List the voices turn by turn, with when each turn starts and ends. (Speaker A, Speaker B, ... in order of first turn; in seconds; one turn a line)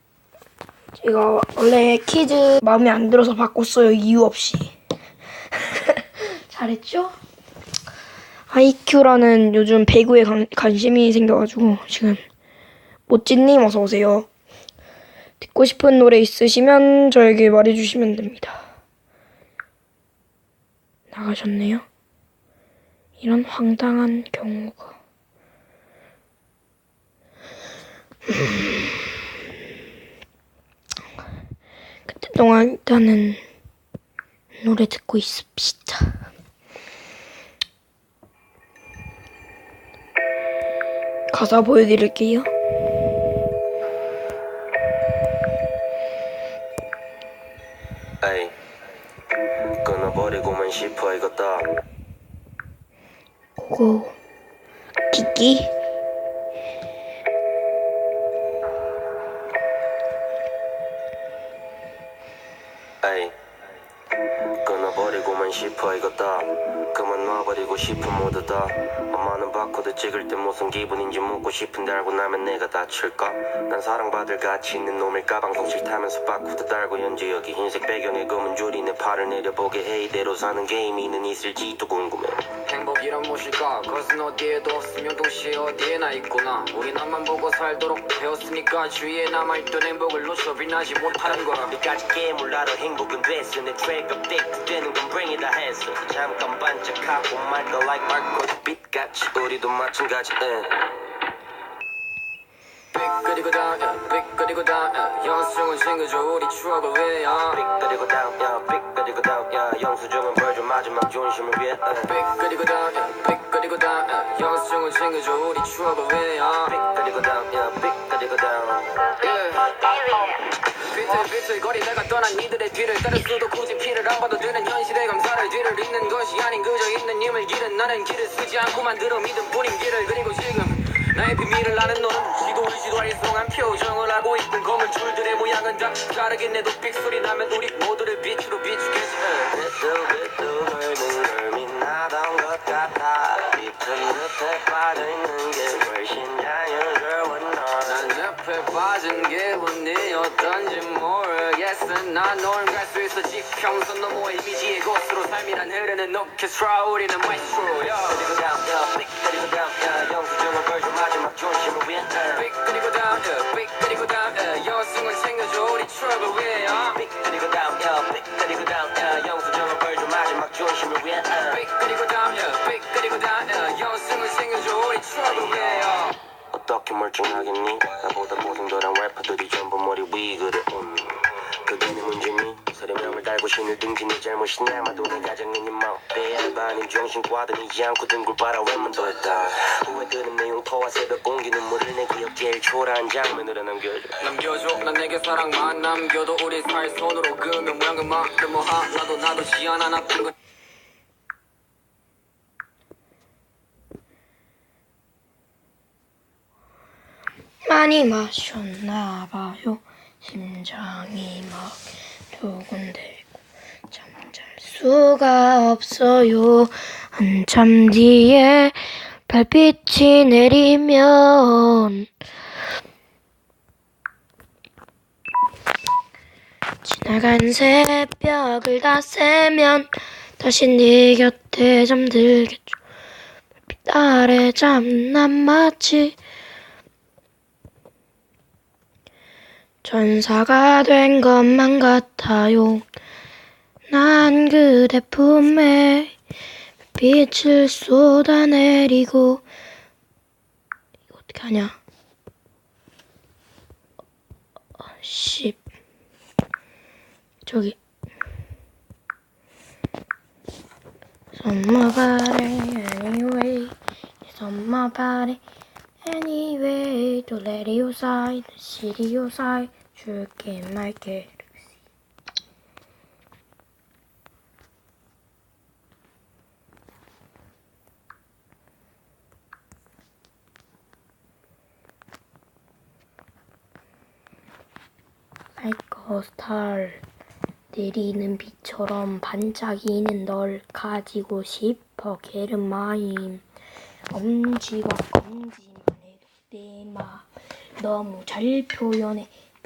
Speaker A: 0.9-4.7
Speaker A: 5.6-7.1
Speaker A: 8.5-12.2
Speaker A: 13.1-14.3
Speaker A: 15.4-18.6
Speaker A: 21.1-21.9
Speaker A: 23.2-25.0
Speaker A: 28.3-28.8
Speaker A: 32.0-33.4
Speaker A: 34.6-36.2
Speaker A: 41.3-42.5
Speaker B: 48.2-48.5
Speaker B: 49.7-51.8
Speaker A: 53.6-54.1
Speaker A: 55.1-55.7
Speaker B: 63.0-63.3
Speaker B: 64.5-82.5
Speaker C: 82.5-91.8
Speaker B: 91.1-100.8
Speaker C: 102.9-107.6
Speaker B: 107.5-112.1
Speaker C: 112.0-116.8
Speaker B: 116.7-119.1
Speaker C: 119.1-139.6
Speaker B: 139.4-148.1
Speaker C: 147.8-158.2
Speaker B: 158.1-162.4
Speaker C: 162.3-167.0
Speaker B: 166.9-171.6
Speaker C: 171.5-176.2
Speaker B: 175.2-175.9
Speaker B: 176.5-194.2
Speaker C: 194.2-200.3
Speaker A: 207.7-213.3
Speaker A: 213.9-222.1
Speaker A: 226.8-232.8
Speaker A: 233.7-236.2
Speaker A: 239.8-242.8
Speaker A: 243.9-246.1
Speaker A: 246.9-249.4
Speaker A: 251.1-251.8
Speaker A: 255.0-255.6
Speaker A: 257.4-257.8
Speaker A: 261.3-265.4
Speaker A: 266.0-271.8
Speaker A: 285.6-287.0
Speaker A: 287.7-293.4
Speaker A: 294.1-299.3